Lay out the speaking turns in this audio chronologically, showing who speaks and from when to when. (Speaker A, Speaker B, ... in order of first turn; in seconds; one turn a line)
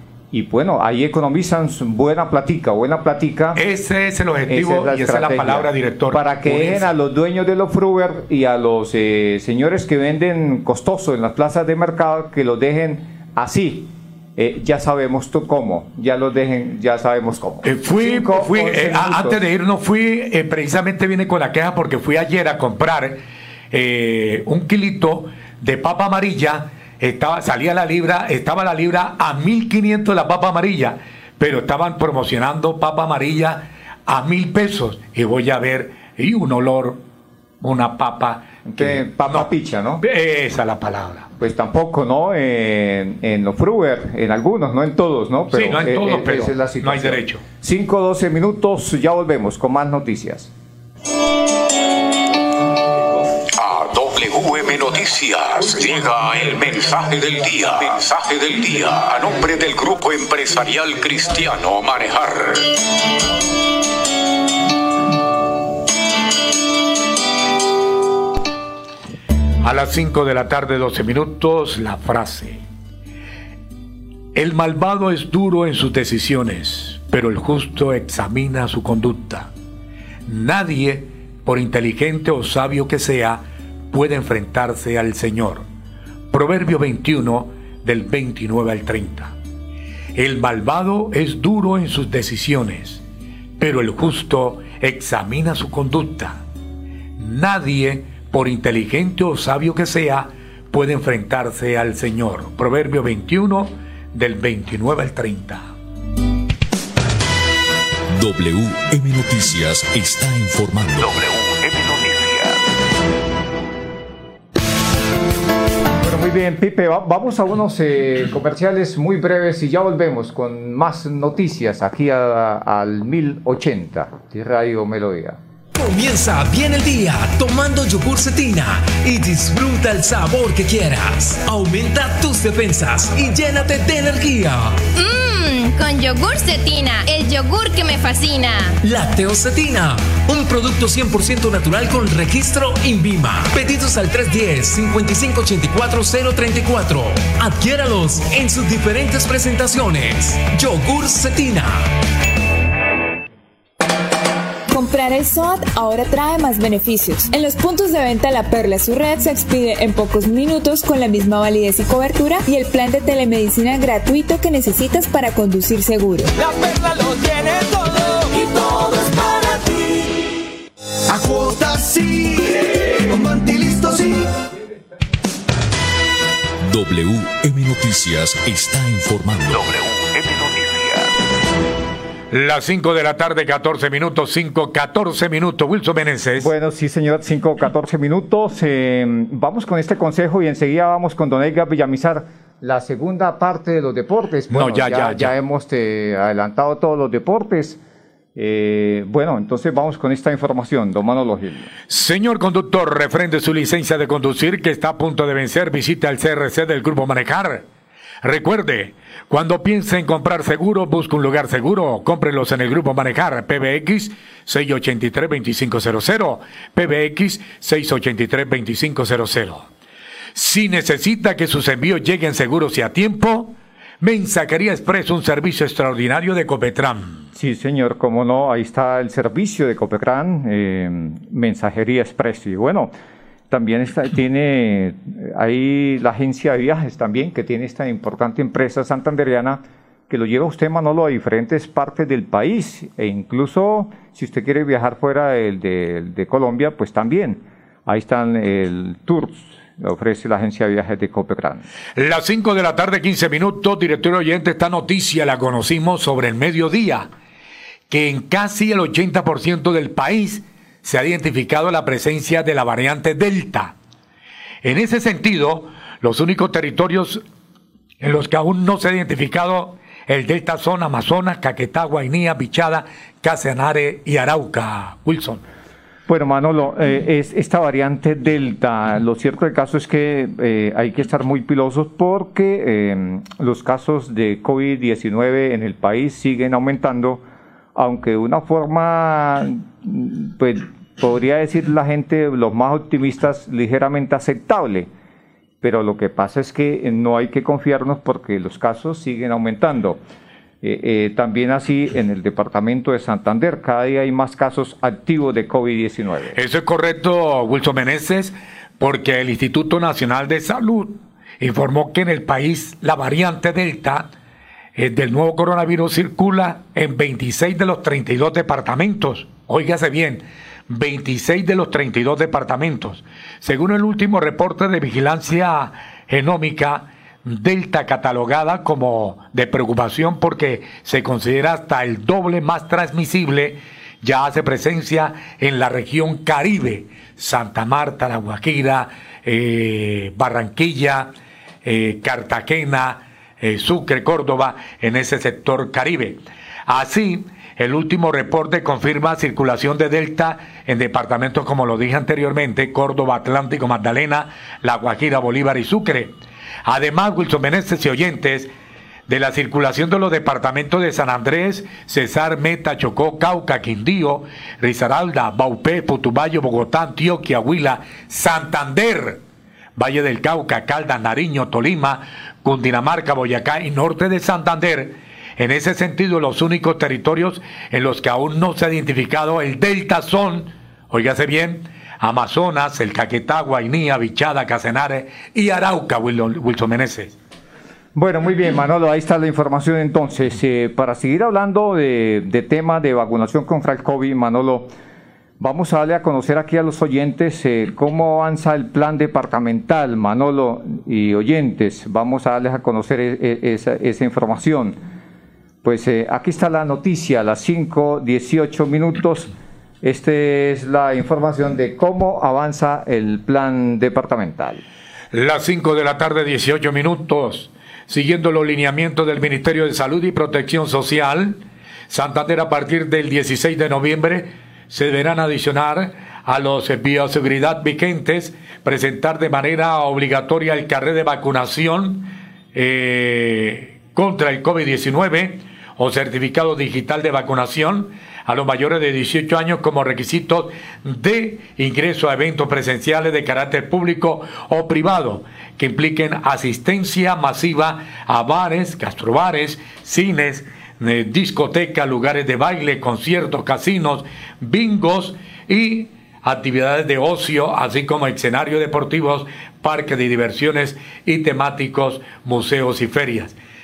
Speaker A: 0.3-3.6
Speaker B: 3.5-6.9
Speaker A: 4.5-19.4
Speaker B: 17.6-37.0
Speaker B: 37.6-39.5
Speaker A: 38.7-40.0
Speaker B: 40.0-41.3
Speaker A: 41.4-50.5
Speaker B: 45.5-47.4
Speaker C: 53.6-62.6
Speaker B: 53.7-58.4
Speaker B: 59.0-60.7
Speaker B: 61.5-62.0
Speaker B: 69.6-72.6
Speaker B: 74.3-79.5
Speaker B: 80.3-85.7
Speaker B: 86.3-89.3
Speaker B: 90.2-93.0
Speaker B: 93.6-96.4
Speaker B: 97.2-105.7
Speaker D: 108.1-111.5
Speaker A: 116.0-125.4
Speaker E: 125.8-134.8
Speaker F: 135.0-138.8
Speaker E: 138.8-151.9
Speaker G: 154.7-166.3
Speaker H: 166.4-170.4
Speaker H: 171.1-174.3
Speaker D: 176.6-179.8
Speaker B: 182.3-186.5
Speaker A: 186.4-197.8
Speaker B: 194.5-195.3
Speaker A: 198.4-201.7
Speaker B: 201.9-207.7
Speaker B: 208.2-219.7
Speaker B: 220.3-227.2
Speaker A: 227.3-232.9
Speaker A: 233.5-251.7
Speaker B: 252.0-257.1
Speaker B: 257.9-263.8
Speaker B: 264.6-267.2
Speaker B: 268.0-275.4
Speaker A: 276.1-287.2
Speaker A: 287.8-294.9
Speaker A: 295.6-300.0
Speaker A: 300.6-306.4
Speaker B: 306.3-314.1
Speaker B: 314.8-341.1
Speaker B: 341.6-358.5
Speaker B: 359.1-369.2
Speaker B: 369.8-387.2
Speaker A: 387.9-394.7
Speaker A: 395.4-404.8
Speaker A: 405.6-414.6
Speaker B: 415.1-463.4